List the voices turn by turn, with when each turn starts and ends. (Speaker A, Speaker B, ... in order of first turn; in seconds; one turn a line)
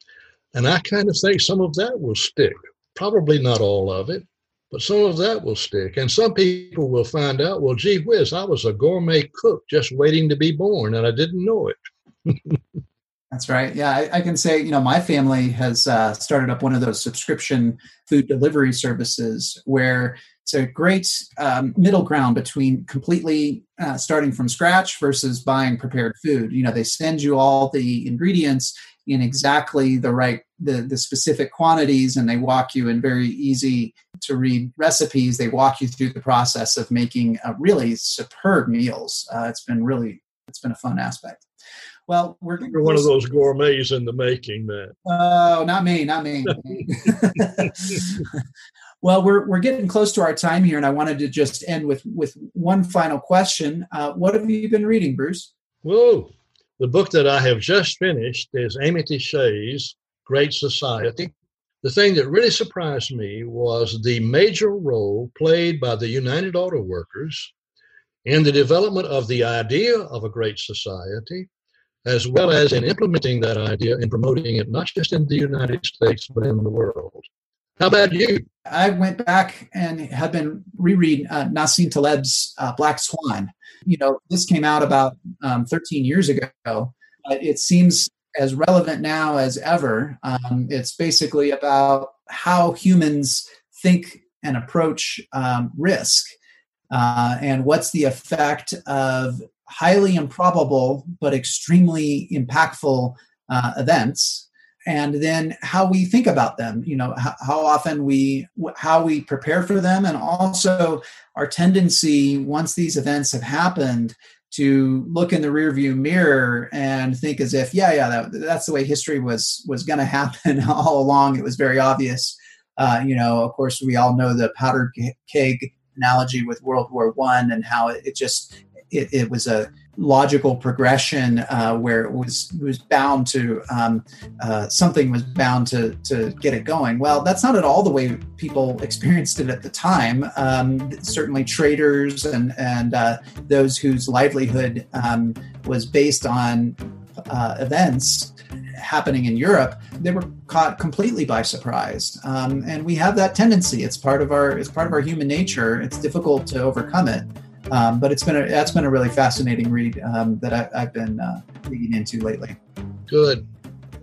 Speaker A: 0.5-12.6
Speaker B: 13.3-41.4
Speaker B: 42.1-43.1
Speaker A: 42.6-45.0
Speaker B: 45.0-48.2
Speaker B: 49.0-55.5
Speaker A: 55.8-67.5
Speaker A: 68.2-71.5
Speaker A: 72.0-77.3
Speaker A: 77.8-78.4
Speaker B: 78.7-96.3
Speaker B: 96.9-162.6
Speaker A: 163.1-163.4